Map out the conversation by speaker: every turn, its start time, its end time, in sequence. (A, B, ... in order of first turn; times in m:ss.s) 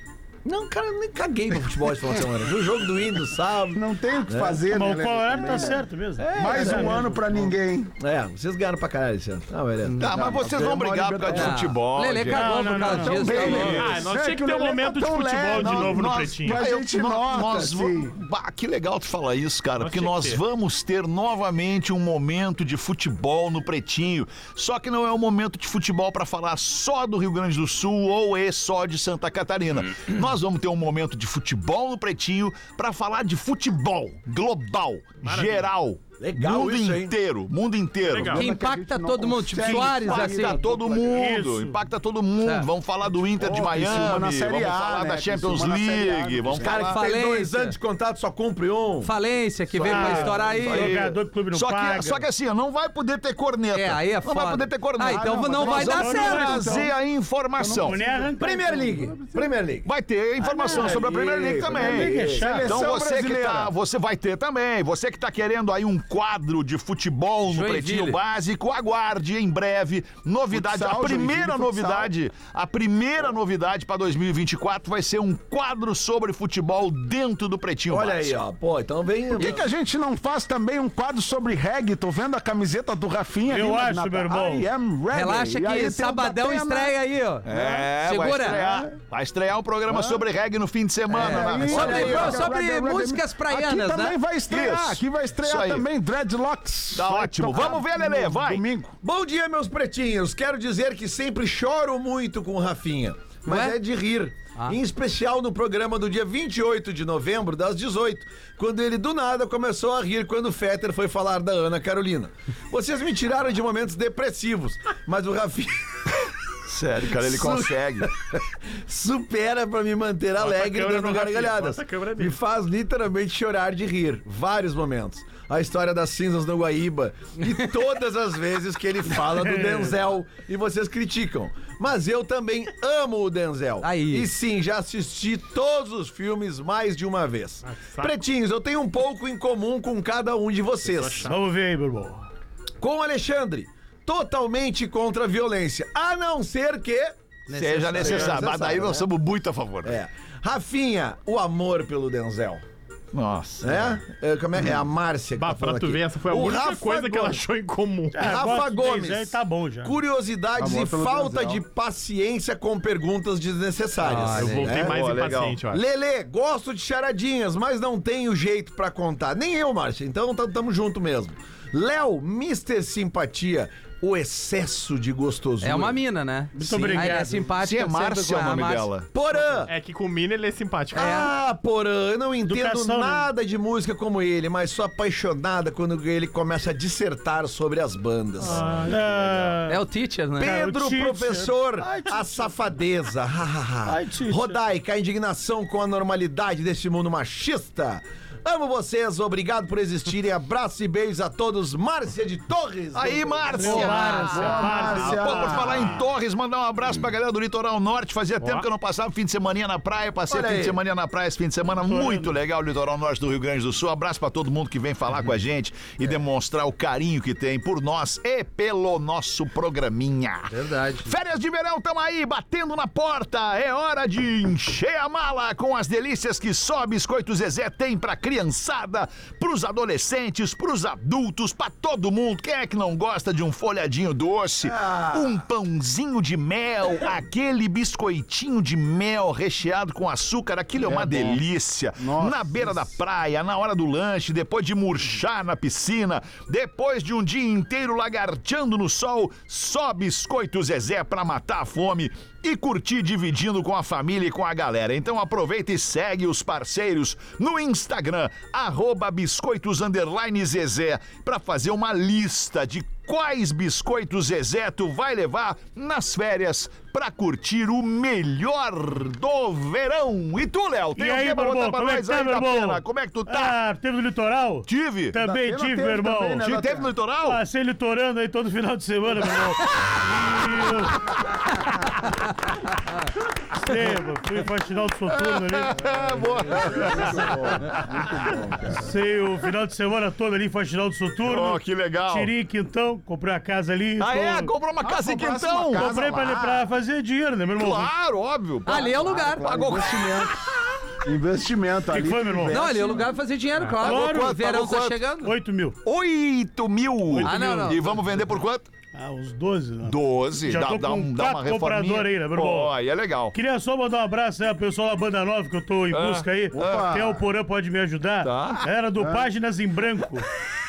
0:00.4-0:04.6 A
0:03.7-0:05.8 B
0:04.6-0:07.1 C
0:06.2-0:10.5 A
0:06.3-0:07.9 B
0:10.0-0:13.9 D
0:10.1-0:11.6 B
0:11.3-0:13.8 E
0:12.3-0:13.6 C
0:13.0-0:18.1 B
0:13.6-0:16.6 F
0:15.5-0:38.4 D
0:19.8-0:20.4 F
0:35.2-0:35.7 F
0:36.2-0:37.1 A
0:38.1-0:38.4 F
0:38.2-0:41.4 B
0:38.3-0:40.6 E
0:39.6-0:47.0 D
0:41.1-0:41.8 C
0:42.4-0:42.7 E
0:43.4-0:46.8 B
0:46.6-0:49.1 A
0:46.8-0:47.8 E
0:49.0-0:50.9 E
0:49.8-0:50.6 A
0:49.8-0:52.2 C
0:50.6-0:58.0 D
0:53.7-0:56.6 E
0:55.0-0:56.9 B
0:55.7-0:56.9 C
0:57.6-0:58.3 B
0:57.7-0:59.4 C
0:58.4-0:59.8 A
0:59.8-1:18.4 D
1:00.4-1:01.0 C
1:00.6-1:02.6 A
1:01.7-1:03.7 B
1:01.8-1:02.8 C
1:07.5-1:08.2 E
1:10.5-1:12.1 B
1:17.9-1:19.6 A
1:19.3-1:27.0 B
1:23.5-1:24.7 C
1:25.1-1:28.6 E
1:27.4-1:32.5 D
1:27.5-1:27.8 B
1:28.4-1:28.9 B
1:29.9-1:30.2 B
1:31.1-1:34.2 E
1:31.1-1:39.0 B
1:31.5-1:32.5 A
1:34.5-1:35.8 D
1:36.9-1:38.6 D
1:39.0-1:56.2 A
1:43.4-1:43.8 E
1:56.6-1:58.1 D
1:57.1-2:21.3 A
2:00.4-2:02.4 F
2:13.8-2:14.3 E
2:17.6-2:18.2 F
2:20.8-2:21.3 F
2:21.3-2:22.2 C
2:22.8-2:27.1 A
2:27.5-2:28.5 E
2:27.5-2:30.0 D
2:27.9-2:29.0 A
2:29.8-2:32.6 A
2:33.1-2:34.0 D
2:33.6-2:37.4 A
2:35.4-2:38.3 F
2:38.1-2:40.0 C
2:38.2-2:45.0 A
2:40.6-2:41.6 B
2:44.0-2:44.8 E
2:44.3-2:45.8 F
2:44.8-2:45.6 D
2:45.7-2:56.0 A
2:55.6-2:58.9 E
2:56.5-2:57.5 C
2:57.6-2:59.1 D
2:59.1-2:59.7 A
2:59.7-3:01.1 F
3:00.9-3:09.1 A
3:00.9-3:01.3 E
3:02.5-3:03.3 C
3:08.5-3:08.8 F
3:08.7-3:09.8 C
3:09.7-3:10.6 E
3:10.4-3:24.5 A
3:10.4-3:12.5 C
3:13.8-3:14.6 C
3:22.9-3:40.5 D
3:23.5-3:25.7 C
3:24.1-3:26.0 B
3:30.3-3:30.8 A
3:31.8-3:32.3 C
3:40.5-3:41.1 E
3:41.0-4:33.6 D
3:54.6-3:55.4 A
4:00.8-4:01.4 B
4:02.0-4:02.9 B
4:30.9-4:36.6 C
4:34.7-4:35.2 D
4:35.2-4:36.9 B
4:36.4-4:37.4 D
4:37.2-4:40.9 C
4:40.4-4:40.6 D
4:43.6-4:45.8 C
4:45.1-4:48.6 D
4:46.5-4:48.8 B
4:48.7-4:54.5 C
4:51.2-4:52.3 D
4:54.0-4:56.0 D
4:54.8-4:56.6 B
4:55.7-4:57.9 C
4:57.5-5:00.2 D
4:58.6-4:59.5 E
4:58.7-5:00.3 B
5:01.0-5:03.1 B
5:01.9-5:02.6 C
5:02.5-5:05.3 E
5:03.8-5:05.0 D
5:03.8-5:04.4 C
5:05.2-5:05.8 C
5:05.8-5:08.7 D
5:07.1-5:07.7 C
5:07.2-5:07.8 E
5:08.9-5:12.7 C
5:09.8-5:13.3 D
5:13.3-5:20.2 C
5:15.9-5:17.0 D
5:16.5-5:17.2 B
5:18.2-5:18.7 D
5:19.0-5:19.3 B